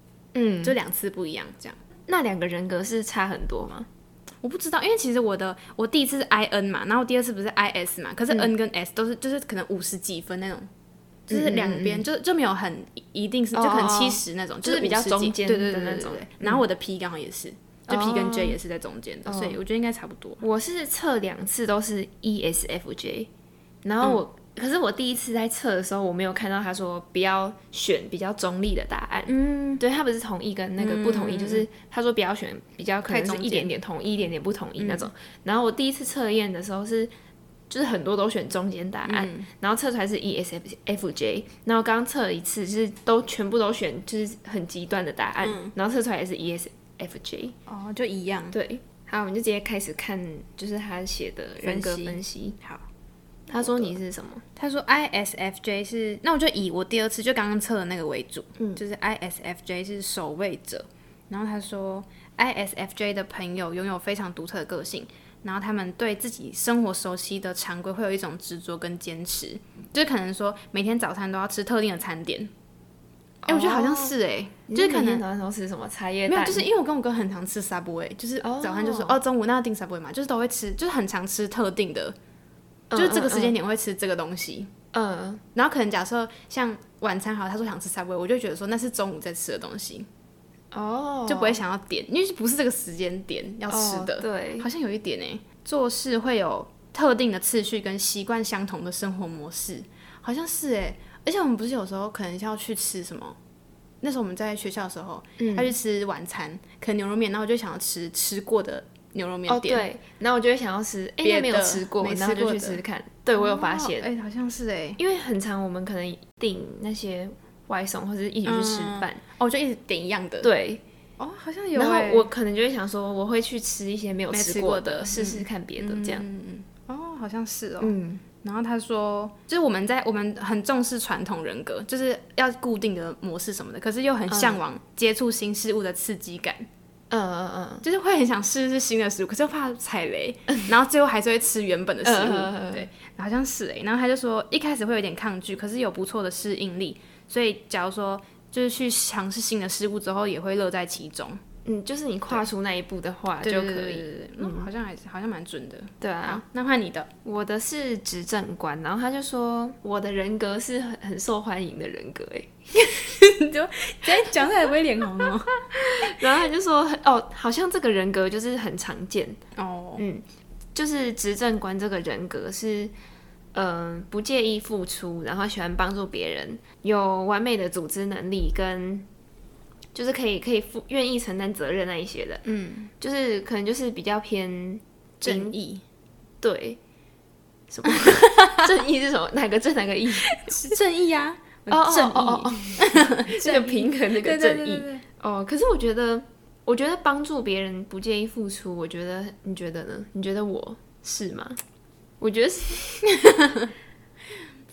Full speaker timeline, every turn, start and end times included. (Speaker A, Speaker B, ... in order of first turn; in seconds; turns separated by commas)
Speaker A: 0.3-0.8, Speaker B: 0.6-1.8, Speaker A: 2.1-3.9, Speaker B: 4.4-10.7, Speaker B: 11.3-20.4, Speaker A: 11.3-12.1, Speaker A: 13.6-16.6, Speaker A: 17.9-18.6, Speaker A: 19.3-19.6, Speaker A: 20.4-23.3, Speaker A: 23.8-37.1, Speaker B: 29.3-29.8, Speaker B: 30.8-31.7, Speaker B: 33.1-33.7, Speaker B: 34.8-35.1, Speaker A: 37.7-47.6, Speaker B: 39.1-39.5, Speaker B: 45.4-45.7, Speaker B: 47.7-48.5, Speaker A: 48.5-52.6, Speaker B: 51.6-52.8, Speaker A: 53.5-54.4, Speaker B: 53.5-54.0, Speaker B: 54.6-72.5, Speaker A: 73.4-74.2, Speaker B: 73.5-75.2, Speaker A: 74.7-76.7, Speaker B: 76.3-82.2, Speaker A: 78.4-79.2, Speaker A: 82.9-83.5, Speaker B: 83.0-84.7, Speaker A: 84.9-85.4, Speaker B: 85.5-90.1, Speaker A: 90.7-91.6, Speaker B: 91.3-103.4, Speaker A: 93.7-94.7, Speaker B: 104.0-109.9, Speaker A: 105.4-105.8, Speaker A: 109.5-114.1, Speaker B: 111.2-112.8, Speaker B: 113.4-115.0, Speaker A: 115.0-119.2, Speaker B: 118.5-120.5, Speaker A: 120.4-120.8, Speaker B: 121.2-122.3, Speaker A: 121.8-126.2, Speaker B: 124.3-136.7, Speaker A: 127.8-128.2, Speaker A: 134.3-134.6, Speaker A: 137.1-137.8, Speaker B: 137.8-151.4, Speaker A: 142.0-142.9, Speaker A: 151.7-154.7, Speaker B: 153.4-157.1, Speaker A: 156.0-156.4, Speaker A: 157.2-162.6, Speaker B: 162.8-166.2, Speaker A: 165.2-169.4, Speaker B: 169.6-170.1, Speaker A: 170.0-172.9, Speaker A: 173.5-179.1, Speaker A: 179.9-182.4, Speaker B: 182.4-182.9, Speaker A: 183.0-185.6, Speaker B: 185.2-185.8, Speaker A: 186.4-186.8, Speaker A: 187.7-190.7, Speaker B: 188.1-188.6, Speaker B: 190.2-195.0, Speaker A: 191.7-201.6, Speaker A: 202.2-203.1, Speaker B: 203.1-203.7